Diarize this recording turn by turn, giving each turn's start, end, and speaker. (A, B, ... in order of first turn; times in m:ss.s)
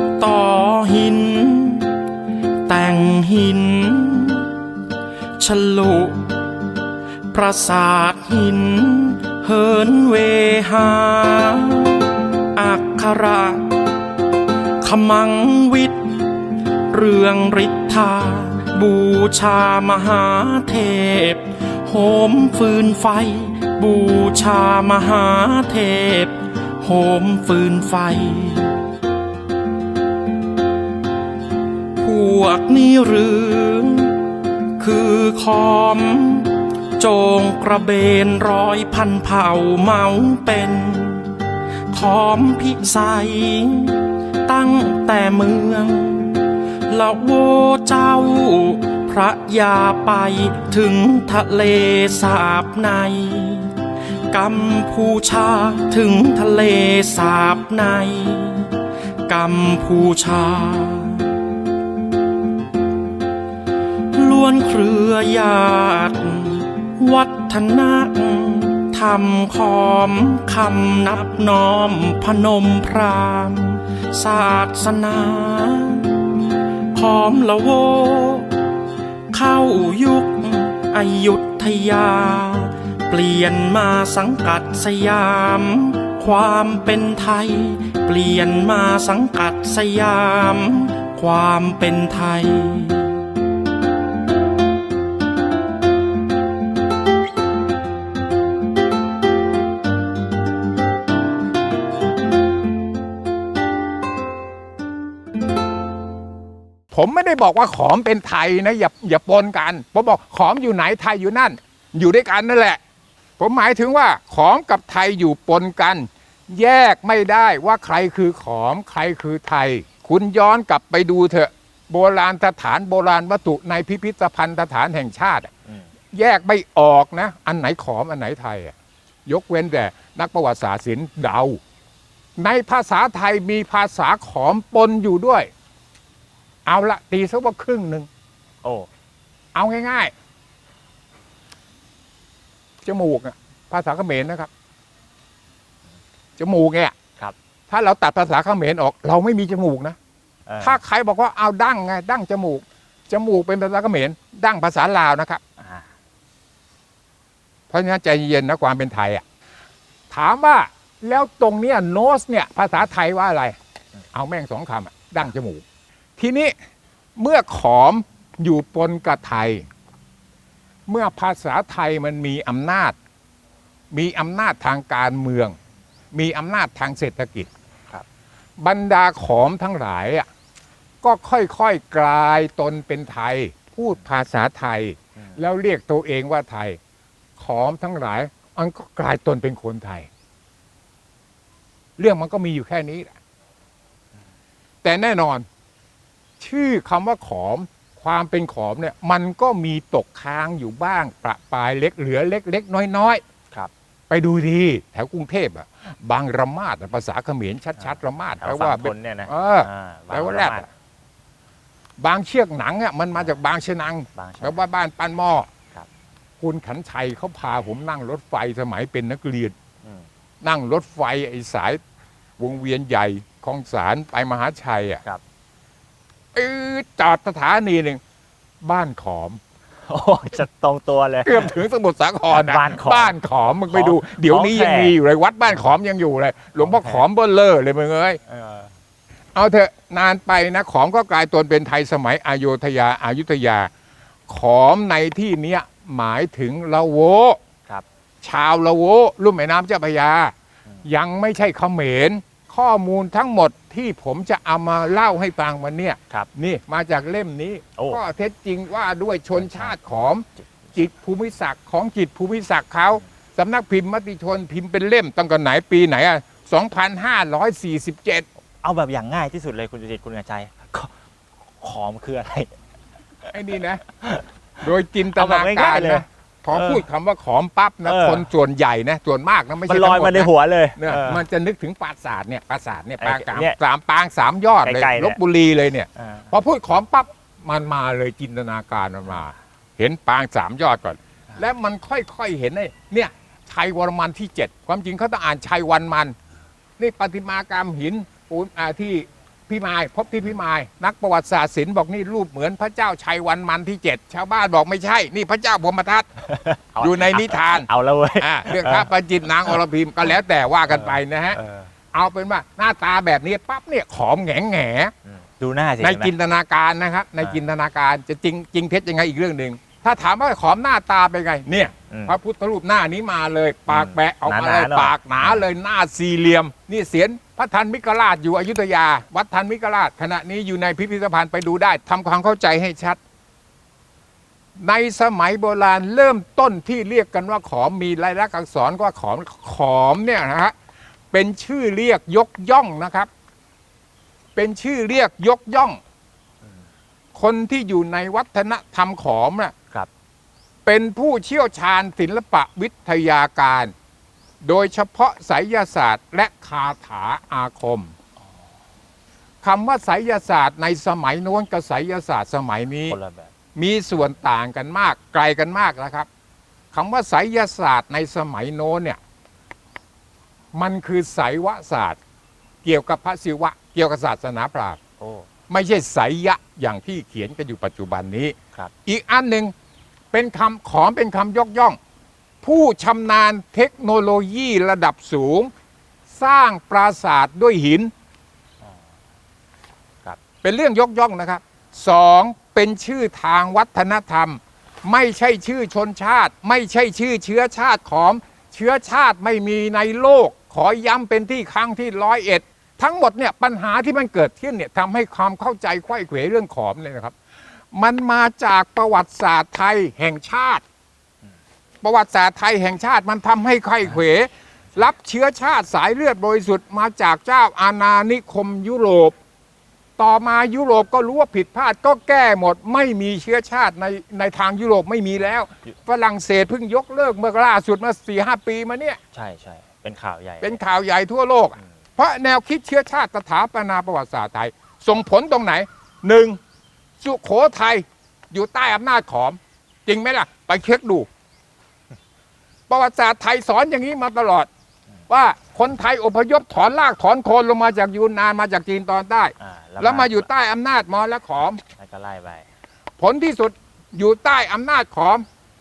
0:00.2-0:02.0 A
0:02.7-0:04.6 A
0:05.4-0:06.3 A
0:07.3-0:13.9 A
0:14.8-0:16.2 A
0:16.9-0:28.8 A
0:32.0-0:41.4 A
0:41.9-0:53.8 A
0:54.3-1:01.4 A
1:04.2-1:16.3 A
1:16.9-1:18.5 A
1:19.3-1:33.2 A
1:46.9-1:52.8 B
1:53.4-2:05.5 B
2:06.1-2:08.7 B
2:09.2-2:11.6 B
2:12.4-2:15.5 B
2:16.7-2:18.1 B
2:18.6-2:18.9 C
2:19.5-2:20.1 B
2:22.8-2:24.5 B
2:26.4-2:27.0 B
2:27.7-2:30.0 B
2:30.5-2:30.8 C
2:30.6-2:35.4 B
2:35.6-2:35.9 C
2:37.7-2:39.2 B
2:40.1-2:43.6 B
2:44.1-2:45.6 B
2:46.2-2:46.5 B
2:47.2-2:49.7 B
2:50.9-2:53.0 B
2:53.9-2:55.6 B
2:56.1-2:57.5 B
2:58.6-3:00.3 B
3:01.0-3:06.8 B
3:07.4-3:10.1 B
3:12.0-3:13.1 B
3:14.8-3:15.4 B
3:16.4-3:23.2 B
3:24.1-3:30.6 B
3:27.8-3:30.7 C
3:32.0-3:35.5 B
3:34.2-3:34.6 C
3:36.4-3:39.5 B
3:40.4-3:41.8 B
3:42.4-3:45.0 B
3:46.3-3:48.0 B
3:48.6-3:49.4 B
3:49.9-3:51.6 C
3:51.2-3:58.2 B
3:52.3-3:53.2 C
3:53.7-3:55.0 C
3:56.6-3:57.0 C
3:58.3-3:58.7 C
3:59.3-4:03.7 B
4:04.3-4:07.4 B
4:08.2-4:10.3 B
4:10.8-4:28.3 B
4:17.8-4:18.0 C
4:19.3-4:19.8 C
4:28.6-4:30.9 C
4:31.6-4:32.5 C
4:33.3-4:33.8 B
4:34.6-4:56.2 B
4:35.1-4:36.8 C
4:37.8-4:38.3 C
4:39.6-4:41.2 C
4:43.0-4:43.6 C
4:44.6-4:45.2 C
4:46.0-4:46.3 C
4:56.8-5:06.1 B
5:06.2-5:08.9 C
5:06.8-5:11.4 B
5:10.7-5:11.7 C
5:11.9-5:14.9 B
5:15.1-5:16.1 C
5:15.8-5:33.0 B
5:21.9-5:22.2 C
5:23.7-5:25.4 C
5:34.6-5:40.5 B
5:41.1-5:43.1 B
5:44.4-5:45.8 B
5:47.2-5:49.6 B
5:50.7-5:53.7 B
5:54.4-5:57.9 B
5:59.4-6:03.0 B
6:02.9-6:03.3 C
6:03.6-6:06.1 B
6:06.7-6:09.0 B
6:10.5-6:12.0 B
6:12.6-6:14.8 B
6:15.0-6:15.3 C
6:15.5-6:19.5 B
6:20.1-6:21.8 B
6:22.4-6:25.5 B
6:26.1-6:27.9 B
6:30.4-6:47.2 B
6:47.7-6:50.6 B
6:51.8-6:59.2 B
7:00.0-7:09.0 B
7:09.1-7:10.6 C
7:10.4-7:16.4 B
7:17.0-7:21.1 B
7:22.7-7:24.5 B
7:25.1-7:31.6 B
7:29.4-7:30.3 C
7:31.8-7:32.5 C
7:33.0-7:35.2 B